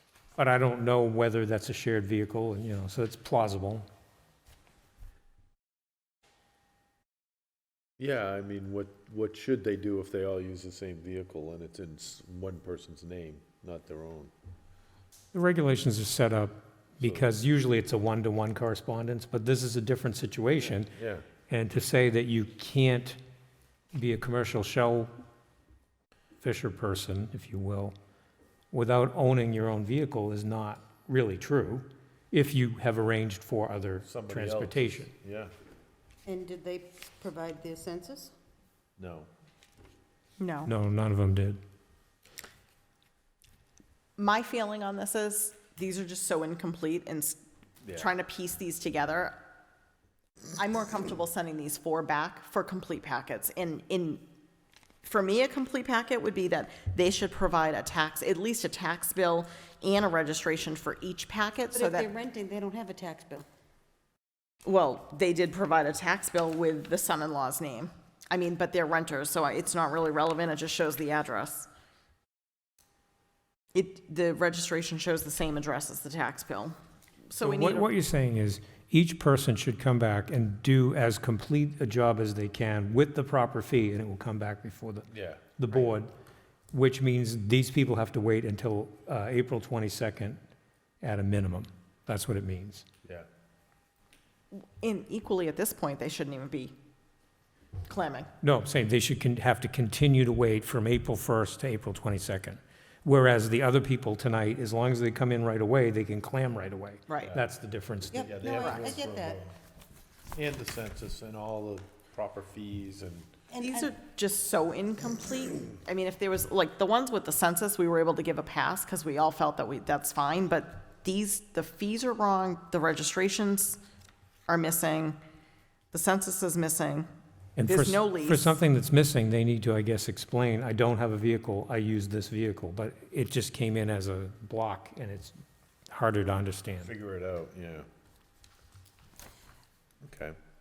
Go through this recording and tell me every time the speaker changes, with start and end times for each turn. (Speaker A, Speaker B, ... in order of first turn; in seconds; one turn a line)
Speaker A: 0.4-3.9
Speaker B: 8.0-14.3
Speaker A: 15.3-20.9
Speaker B: 17.0-17.3
Speaker B: 20.6-21.2
Speaker A: 21.5-23.2
Speaker A: 23.9-25.1
Speaker A: 26.4-27.9
Speaker A: 28.7-35.1
Speaker B: 34.0-35.5
Speaker C: 36.3-38.3
Speaker B: 39.0-39.3
Speaker D: 40.4-40.7
Speaker A: 40.6-41.6
Speaker D: 44.2-47.4
Speaker B: 47.8-48.1
Speaker D: 47.9-49.4
Speaker D: 50.5-54.2
Speaker D: 55.0-62.1
Speaker C: 61.7-63.5
Speaker D: 64.6-71.7
Speaker D: 73.7-76.8
Speaker D: 77.3-77.9
Speaker A: 77.4-86.1
Speaker B: 85.1-85.5
Speaker A: 86.7-90.4
Speaker A: 91.0-92.8
Speaker D: 94.5-96.7
Speaker D: 97.9-98.3
Speaker A: 98.4-108.3
Speaker B: 108.1-109.6
Speaker C: 108.1-109.4
Speaker D: 108.5-108.9
Speaker B: 110.3-113.4
Speaker C: 113.5-113.9
Speaker D: 113.6-123.8
Speaker D: 124.5-125.2
Speaker D: 125.9-127.1
Speaker A: 127.5-135.3
Speaker D: 127.7-128.6
Speaker A: 135.9-136.9
Speaker B: 136.8-137.9
Speaker B: 140.0-140.4